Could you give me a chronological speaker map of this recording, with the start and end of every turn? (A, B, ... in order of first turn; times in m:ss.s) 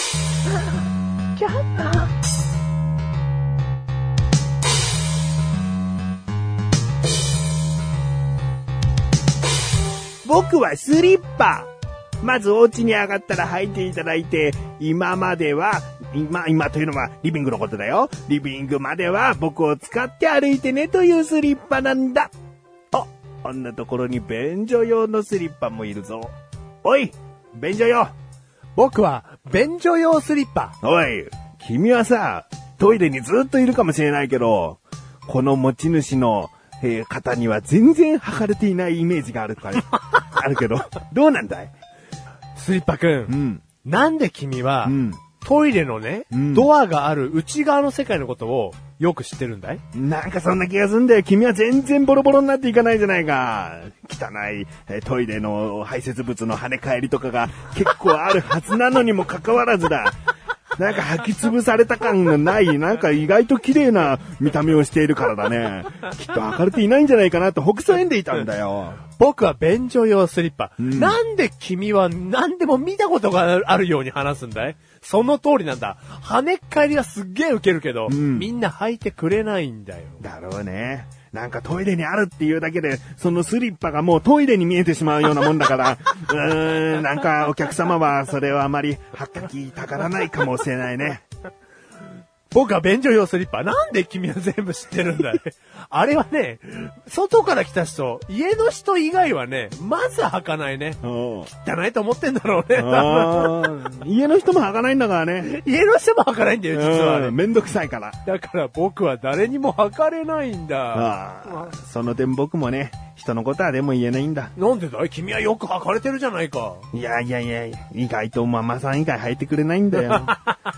0:01.4-0:02.1 A
0:10.2-0:11.7 B
0:12.2-0:22.3 B
0:22.9-0:28.1 B
0:28.8-0:30.8 A
0:30.8-0:41.7 B
0:42.6-0:49.8 A
0:43.3-0:43.6 B
0:44.8-0:45.2 B
0:46.3-0:46.7 B
0:49.9-1:00.2 B
1:00.8-1:09.0 B
1:09.1-1:20.2 A
1:10.8-1:11.2 B
1:18.1-1:18.5 B
1:20.2-1:31.2 B
1:32.5-1:43.9 A
1:41.0-1:41.5 B
1:42.7-1:45.5 B
1:45.4-1:47.4 A
1:46.7-1:48.2 B
1:48.2-1:51.7 A
1:50.9-1:54.5 B
1:54.6-1:56.9 A
1:56.9-2:00.4 B